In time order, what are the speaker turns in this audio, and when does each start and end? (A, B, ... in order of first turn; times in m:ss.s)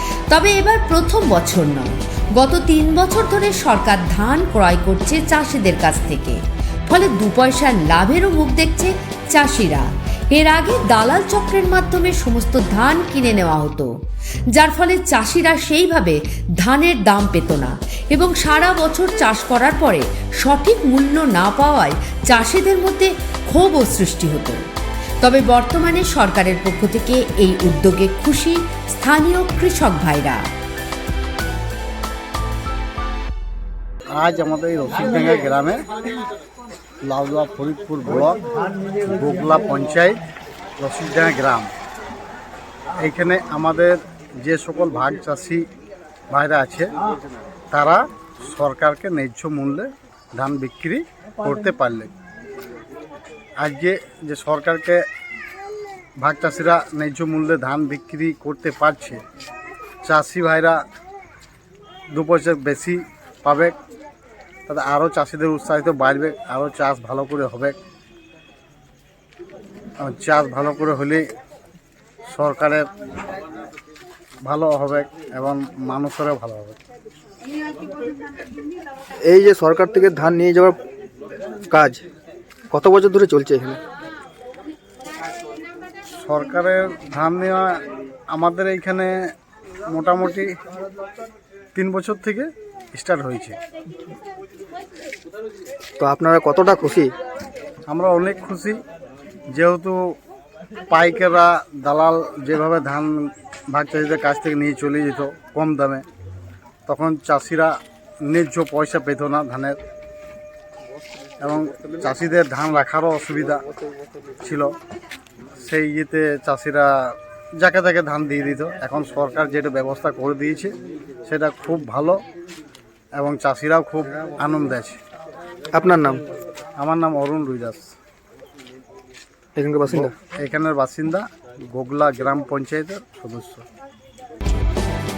0:00.3-0:13.9 A
0:14.5-0:24.6 A
0:25.2-0:30.5 A
0:34.2-0:35.8 B
0:37.0-0:40.2 B
0:40.8-0:41.7 B
0:43.0-0:45.6 B
0:46.3-0:46.9 B
0:47.7-0:52.1 B
0:53.6-0:55.0 B
0:56.2-0:59.2 B
1:00.0-1:00.8 B
1:02.1-1:03.8 B
1:04.7-1:07.8 B
1:10.0-1:11.2 B
1:12.3-1:12.9 B
1:14.4-1:16.8 B
1:19.2-1:20.8 C
1:21.7-1:22.0 C
1:22.7-1:23.8 C
1:26.2-1:27.8 B
1:28.3-1:29.2 B
1:29.9-1:30.5 B
1:31.8-1:33.6 B
1:36.0-1:37.1 C
1:37.9-1:38.8 B
1:39.5-1:40.2 B
1:40.9-1:46.0 B
1:46.9-1:49.8 B
1:51.4-1:53.6 B
1:54.4-1:54.7 B
1:55.6-2:00.7 B
2:01.2-2:02.2 B
2:03.2-2:05.0 B
2:05.7-2:06.2 C
2:06.8-2:07.9 B
2:09.6-2:10.1 C
2:09.9-2:13.6 B